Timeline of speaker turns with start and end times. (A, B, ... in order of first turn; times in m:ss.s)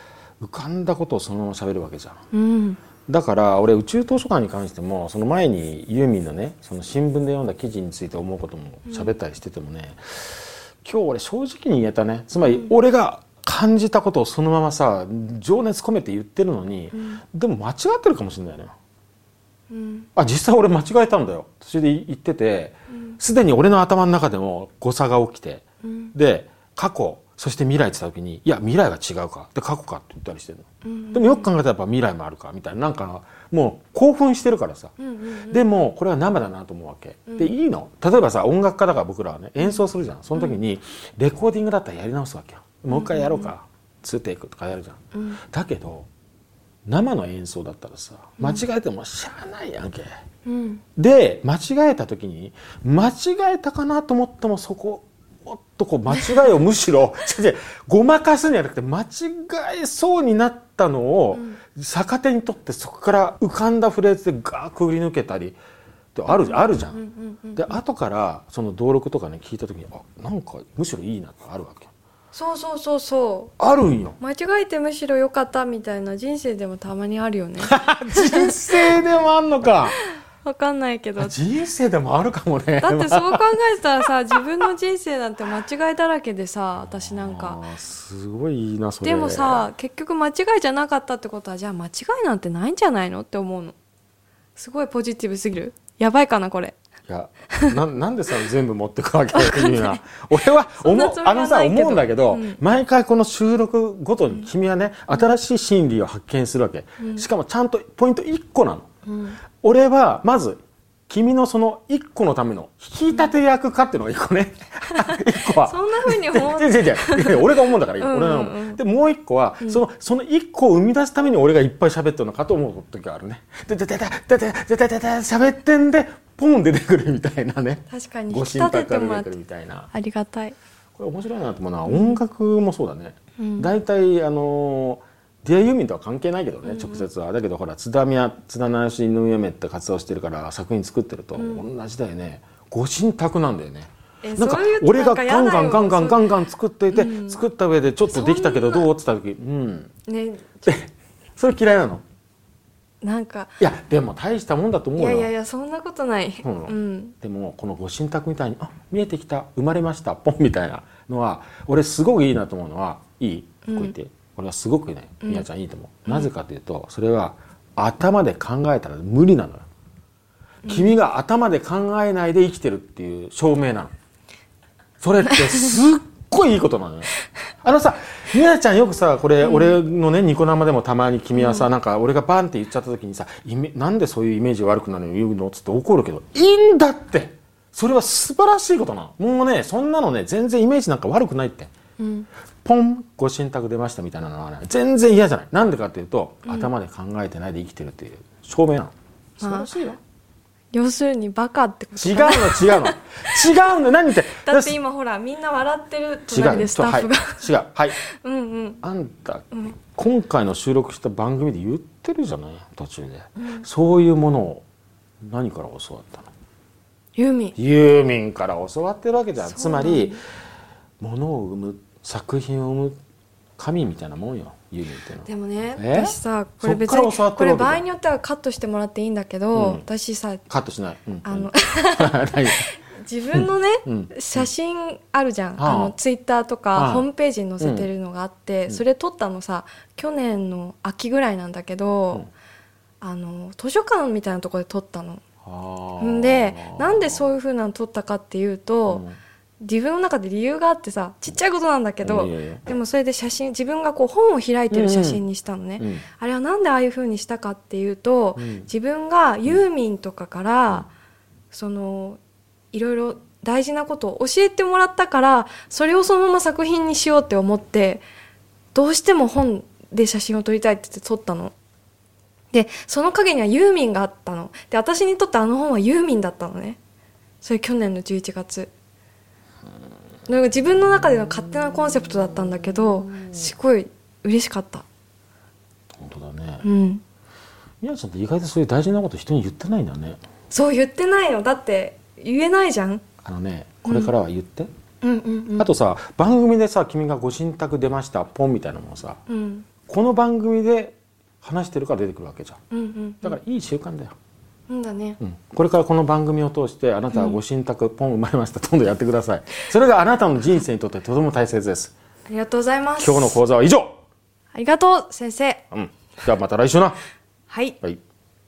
0:00.4-0:02.2 A
0:02.3-0:02.8 B
0:03.1-0:18.7 A
0:12.4-0:12.7 B
0:16.9-0:17.2 B
0:19.7-0:20.1 B
0:20.1-0:34.9 A
0:25.8-0:26.1 B
0:30.8-0:31.5 B
0:35.0-0:35.7 B
0:35.5-0:46.1 A
0:39.6-0:40.6 B
0:42.9-0:43.5 B
0:45.1-0:45.4 B
0:46.8-0:50.1 A
0:50.4-0:50.8 B
0:51.0-1:05.6 A
0:56.1-0:56.4 B
1:01.3-1:01.6 B
1:06.1-1:07.0 A
1:06.3-1:07.8 B
1:07.6-1:11.9 A
1:12.3-1:13.6 B
1:13.6-1:14.2 A
1:14.2-1:19.0 B
1:17.6-1:20.0 A
1:19.9-1:21.3 B
1:21.2-1:23.4 A
1:22.8-1:27.6 B
1:26.8-1:29.7 A
1:29.0-1:33.8 B
1:34.6-1:36.8 B
1:37.1-1:48.9 A
1:39.3-1:42.6 B
1:47.0-1:47.3 B
1:49.0-1:49.4 B
1:49.6-2:09.9 A
1:54.9-1:58.8 B
2:07.9-2:09.3 B
2:09.9-2:10.6 B
2:11.0-2:29.9 A
2:11.8-2:12.2 B
2:13.4-2:13.7 B
2:16.6-2:17.1 B
2:21.3-2:21.6 B
2:24.2-2:26.3 B
2:26.9-2:27.4 B
2:28.1-2:28.9 B
2:30.1-2:30.7 B
2:30.6-2:32.0 A
2:33.0-2:33.6 B
2:33.6-2:35.3 A
2:35.0-2:37.1 B
2:36.4-2:49.6 A
2:43.6-2:43.9 B
2:50.6-2:51.0 B
2:50.7-2:53.9 A
2:55.0-3:11.7 A
2:59.4-2:59.8 B
3:01.3-3:01.7 B
3:12.0-3:12.3 B
3:12.6-3:20.0 A
3:16.4-3:16.7 B
3:19.4-3:19.7 B
3:20.7-3:23.5 B
3:22.0-3:24.8 A
3:24.4-3:28.8 B
3:26.3-3:28.0 A
3:28.8-3:34.6 A
3:33.4-3:33.6 B
3:35.2-3:36.3 A
3:37.2-3:37.5 B
3:37.6-3:40.2 A
3:39.4-3:40.2 B
3:41.0-3:43.0 A
3:43.6-3:47.8 A
3:45.2-3:50.4 B
3:49.5-3:49.8 A
3:50.5-3:52.6 A
3:51.2-4:02.2 B
3:53.3-3:54.5 A
3:55.6-3:55.9 A
3:56.7-3:57.0 A
3:57.6-3:57.9 A
4:03.0-4:05.2 B
4:05.4-4:07.3 A
4:06.0-4:09.0 B
4:08.9-4:09.2 A
4:09.6-4:20.9 B
4:12.0-4:12.6 A
4:14.7-4:15.2 A
4:15.8-4:16.0 A
4:18.4-4:18.7 A
4:21.5-4:22.2 B
4:22.7-4:28.0 B
4:28.7-4:31.5 B
4:32.5-4:36.8 B
4:37.4-4:38.7 B
4:40.3-4:44.8 B
4:46.0-4:46.6 A
4:46.6-4:47.0 B
4:47.8-4:50.2 A
4:50.5-4:53.0 B
4:53.2-4:54.7 A
4:53.8-4:54.1 B
4:55.0-4:55.7 B
4:55.6-4:59.2 A
4:59.3-4:59.6 B
4:59.9-5:02.6 A
5:02.7-5:03.4 B
5:03.2-5:04.1 A
5:04.7-5:05.2 B
5:05.2-5:11.9 A
5:07.1-5:07.4 B
5:12.3-5:13.4 B
5:13.0-5:14.0 A
5:14.5-5:15.6 B
5:15.7-5:17.0 A
5:17.5-5:17.8 B